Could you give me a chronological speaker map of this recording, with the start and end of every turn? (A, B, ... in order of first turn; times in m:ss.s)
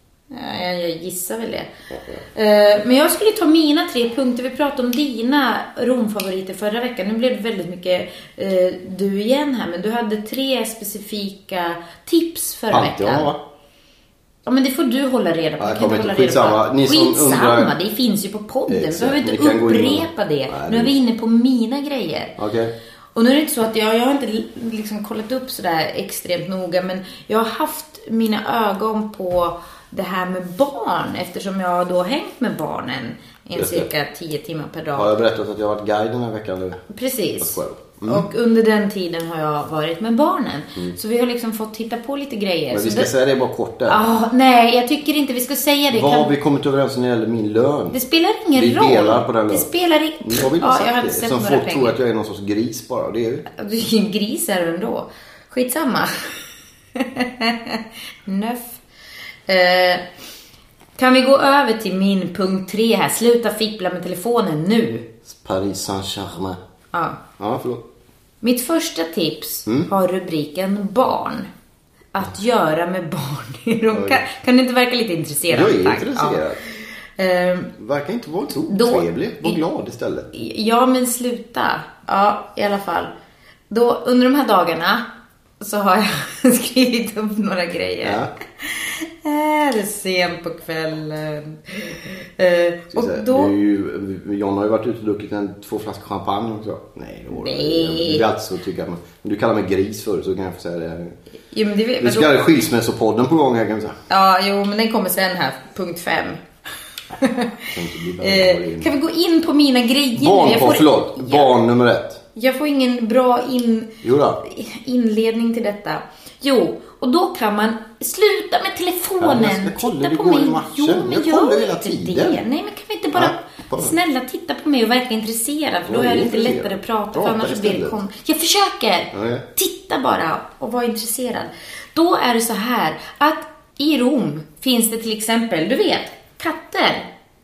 0:00.3-0:01.7 A
0:01.9-0:02.2 B
0:02.3-0:13.3 A
0:12.7-0:13.4 B
0:14.4-0:22.4 A
0:15.6-0:17.7 B
0:18.7-0:20.9 B
0:22.4-0:22.7 B
0:23.1-0:35.1 A
0:33.5-0:33.9 B
0:34.9-0:36.8 B
0:36.9-0:43.1 A
0:37.4-0:38.2 B
0:42.7-0:44.0 B
0:43.9-0:46.3 A
0:45.9-0:48.0 B
0:47.9-0:52.0 A
0:48.5-0:49.7 B
0:50.2-0:53.5 B
0:53.5-0:56.4 A
0:56.9-0:58.8 A
0:59.5-1:00.0 A
1:01.0-1:05.1 A
1:05.2-1:06.6 B
1:06.9-1:07.2 A
1:07.4-1:07.8 B
1:08.4-1:11.5 A
1:12.1-1:17.7 A
1:13.9-1:14.2 B
1:15.5-1:16.6 B
1:17.8-1:20.3 B
1:18.7-1:19.6 A
1:20.3-1:23.1 A
1:23.7-1:25.0 A
1:25.6-1:33.5 A
1:28.0-1:28.3 B
1:32.9-1:41.2 B
1:37.3-1:38.2 A
1:41.5-1:42.3 A
1:42.0-1:44.0 B
1:44.1-1:46.4 A
1:47.2-1:47.6 A
1:47.7-1:48.9 B
1:48.2-1:51.5 A
1:50.1-1:52.2 B
1:52.4-2:17.1 A
1:54.0-1:54.4 B
1:59.2-2:02.4 B
2:03.1-2:04.0 B
2:05.9-2:08.0 B
2:09.1-2:09.4 B